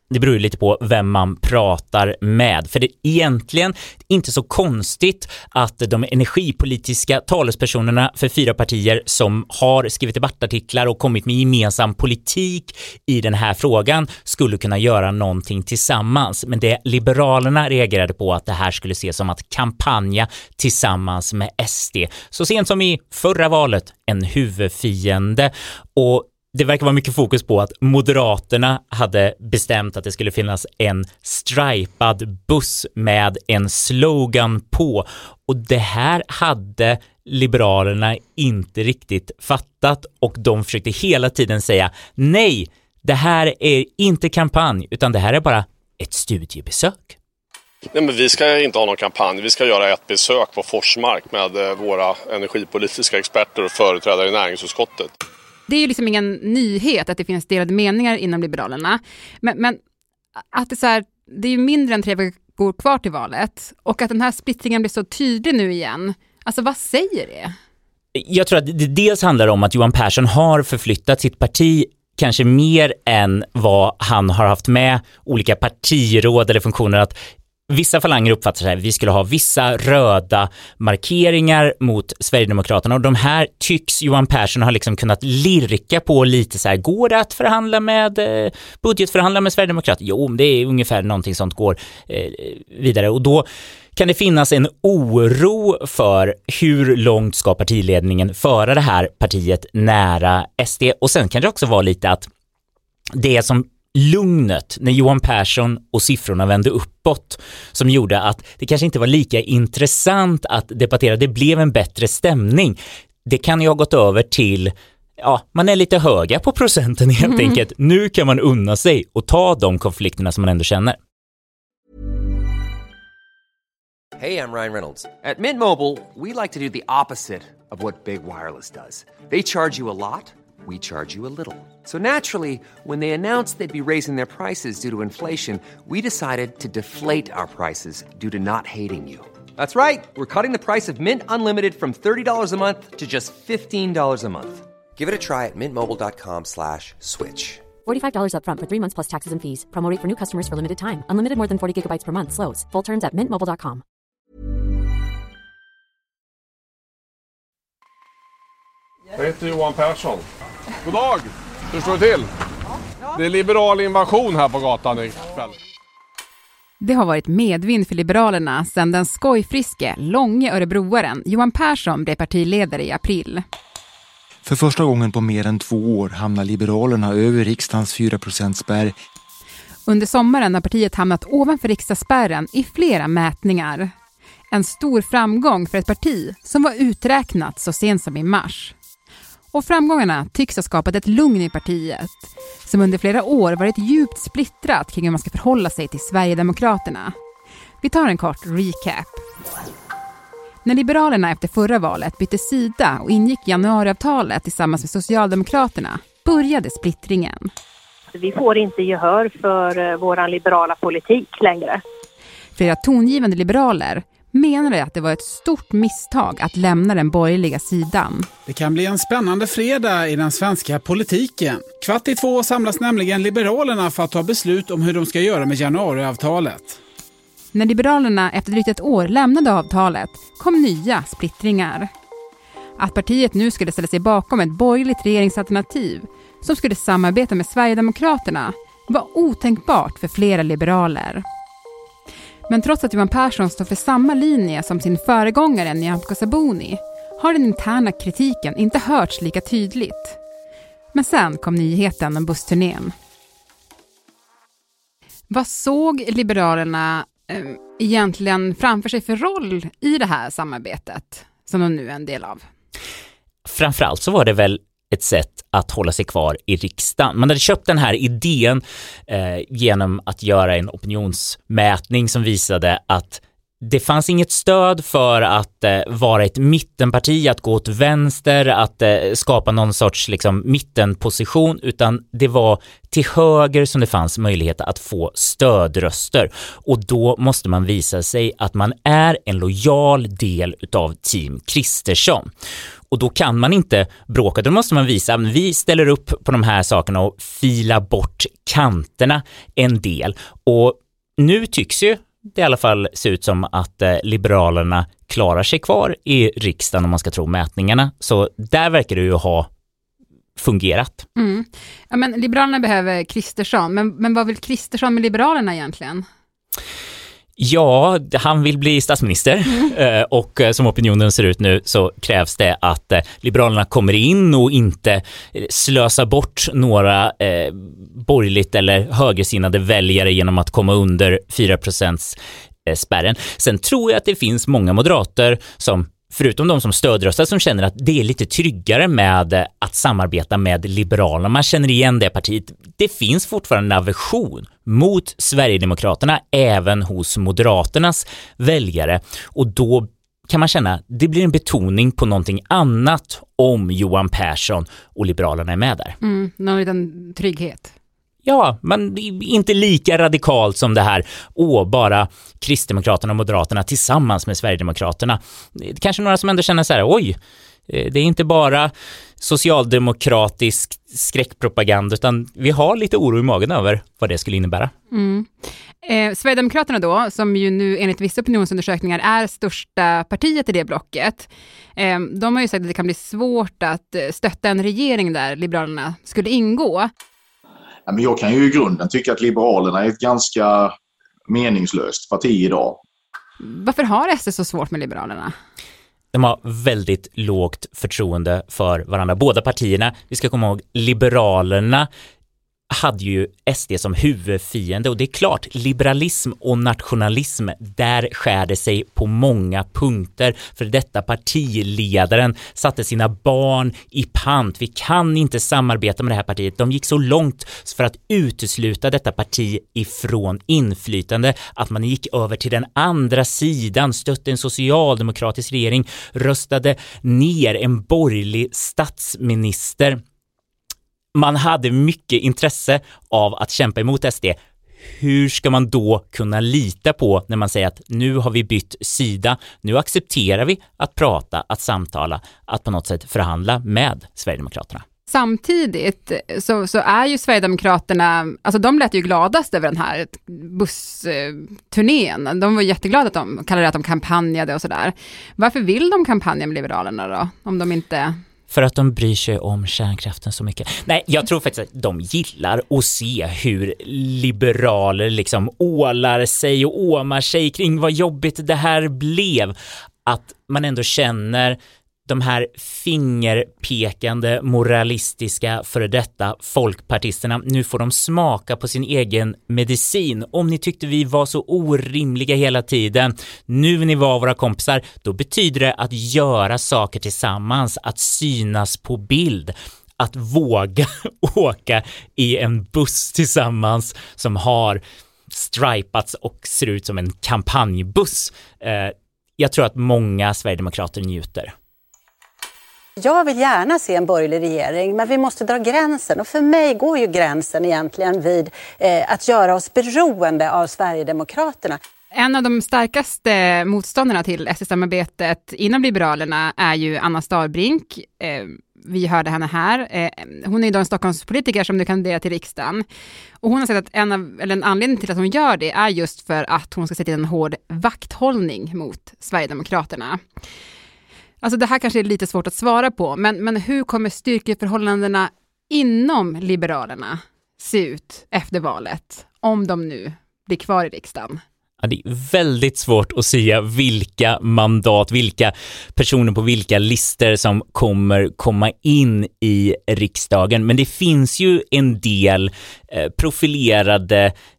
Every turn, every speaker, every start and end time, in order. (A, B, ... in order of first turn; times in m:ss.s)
0:00.1-0:47.2 A
0:47.9-0:55.1 B
0:55.7-0:59.8 C
1:00.5-1:07.5 C
1:08.2-1:17.2 A
1:17.7-1:42.3 A
1:43.2-2:01.0 A
2:04.2-2:27.7 D
2:27.8-2:33.8 E
2:39.2-2:40.2 F
2:40.8-2:42.3 F
2:43.2-2:45.5 F
2:46.8-2:53.4 C
2:54.4-2:58.9 G
2:59.9-3:03.9 C
3:04.5-3:08.8 C
3:09.5-3:17.1 C
3:17.8-3:19.2 C
3:20.6-3:27.5 C
3:28.1-3:31.8 H
3:32.6-3:38.3 C
3:38.5-3:46.8 I
3:47.5-3:51.9 C
3:52.8-4:01.2 C
4:02.5-4:10.2 C
4:10.9-4:12.9 C
4:15.3-4:22.4 C
4:23.5-4:52.3 A
4:52.9-5:09.5 A
5:10.4-5:11.0 A
5:11.2-5:16.0 C
5:17.4-5:56.0 A
5:56.0-5:57.7 C
5:58.2-6:07.2 A
6:07.7-6:14.7 A
6:14.9-6:26.9 C
6:27.9-6:30.7 J
6:31.3-6:32.8 J
6:33.4-6:35.3 C
6:36.1-6:41.9 A
6:42.7-7:10.0 A
7:11.2-7:14.4 A
7:14.9-7:24.8 A
7:25.1-7:38.2 C
7:38.5-7:49.5 A
7:50.1-8:14.8 A
8:15.3-8:21.5 A
8:23.0-8:31.8 K
8:32.1-8:42.8 C
8:43.4-8:50.2 C
8:51.4-9:01.4 C
9:01.8-9:14.3 A